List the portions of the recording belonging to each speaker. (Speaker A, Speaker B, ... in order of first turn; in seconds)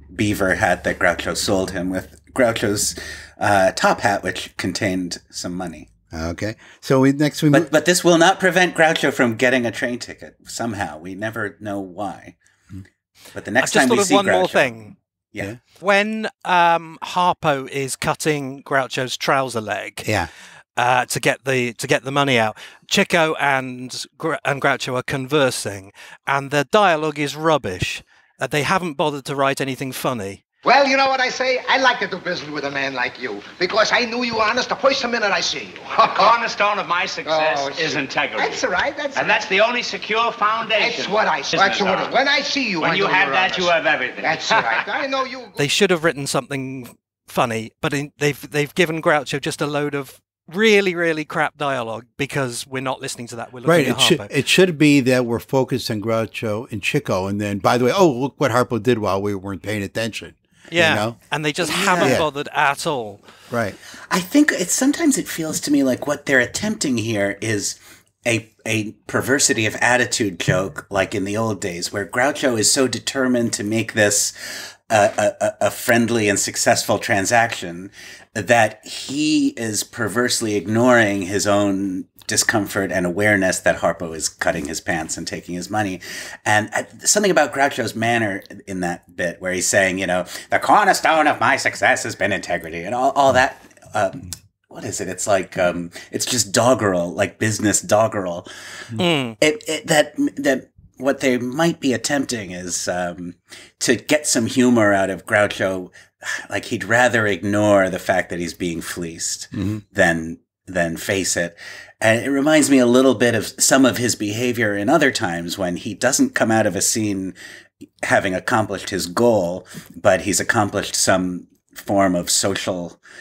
Speaker A: 0.1-5.9, 7.5-12.4, 13.3-14.8, 61.6-62.2, 64.1-98.5, 99.4-117.4, 118.0-123.0
Speaker B: 6.1-7.7, 20.1-20.3, 53.6-61.2, 62.0-62.3, 63.5-63.8, 109.5-109.8
Speaker C: 13.6-14.9, 15.8-20.1, 20.8-30.4, 45.6-54.3, 60.7-63.2, 99.0-99.4
Speaker D: 30.6-36.4, 37.3-39.5, 40.6-45.6
Speaker E: 36.0-42.2, 42.8-44.9